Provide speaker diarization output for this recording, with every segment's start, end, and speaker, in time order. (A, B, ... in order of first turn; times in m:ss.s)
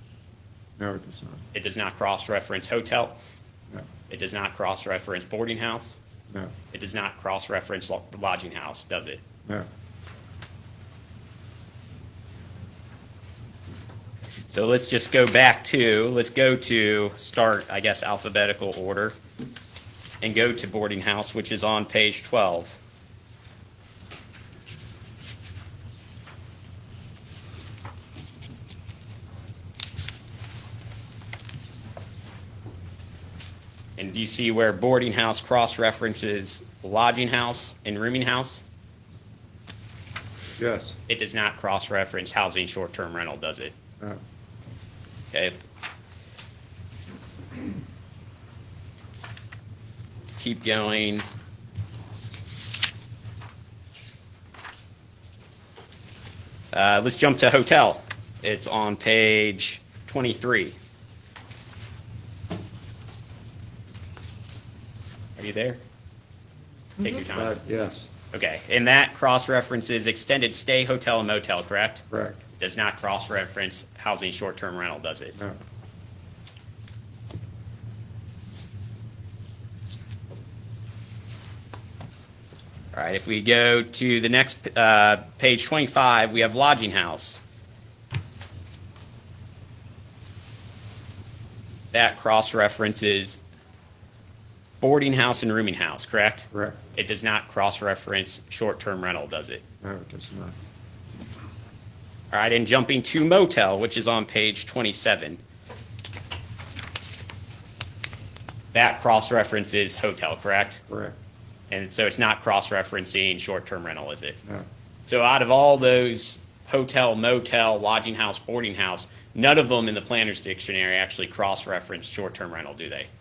0:00.8-0:01.4 A
0:01.5-0:03.2 B
0:04.1-0:06.0 B
0:06.7-0:09.2 B
0:14.5-0:19.2 B
0:20.2-0:22.8 B
0:34.0-0:38.6 B
0:40.6-0:41.0 A
0:41.1-0:43.7 B
0:45.3-0:45.6 B
0:50.3-0:51.2 B
0:56.7-1:00.8 B
1:05.4-1:05.8 B
1:07.0-1:07.6 B
1:07.3-1:08.1 A
1:08.3-1:12.0 B
1:12.1-1:12.4 A
1:12.6-1:15.4 B
1:22.9-1:27.4 B
1:31.9-1:33.4 B
1:34.8-1:39.6 B
1:36.5-1:36.8 A
1:39.8-1:40.5 A
1:42.3-1:45.4 B
1:48.7-1:50.8 B
1:50.9-1:51.2 A
1:51.7-1:54.4 B
1:55.0-2:03.1 B